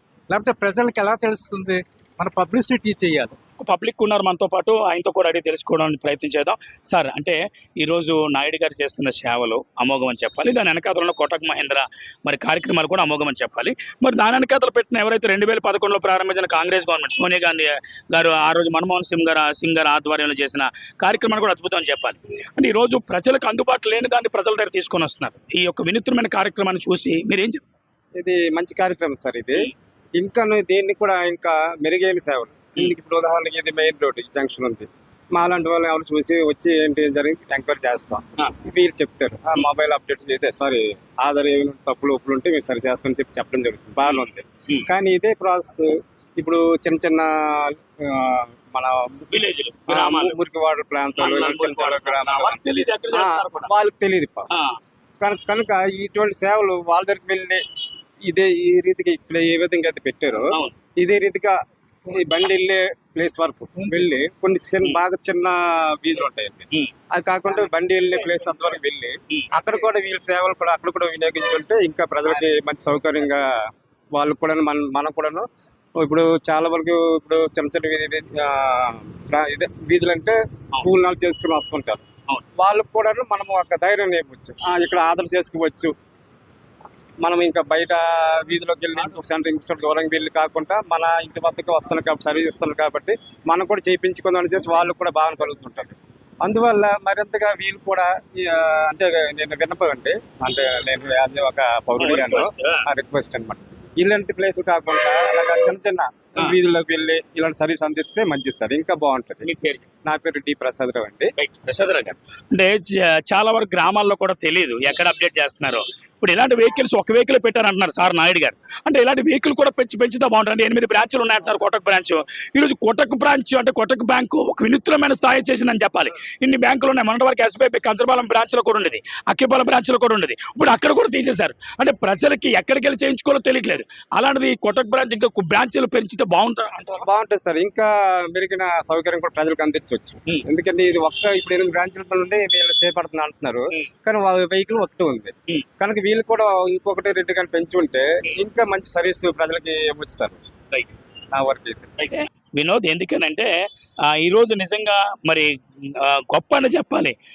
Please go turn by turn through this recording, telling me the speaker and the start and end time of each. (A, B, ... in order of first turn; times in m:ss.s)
0:00.3-0:03.4 A
0:03.6-0:27.6 B
0:28.2-0:52.6 C
0:49.3-0:50.4 B
0:51.2-0:53.7 B
0:53.1-0:54.5 C
0:54.5-0:54.8 B
0:55.2-0:57.6 C
0:58.3-1:01.6 C
1:02.1-1:13.5 C
1:14.1-1:15.5 C
1:16.0-1:22.0 C
1:22.6-1:25.9 C
1:27.2-1:49.5 C
1:42.0-1:42.8 B
1:49.4-1:49.8 B
1:50.0-1:51.3 C
1:51.4-2:17.1 B
2:17.0-2:30.4 C
2:31.3-2:32.0 C
2:32.0-2:33.5 B
2:34.1-2:37.1 B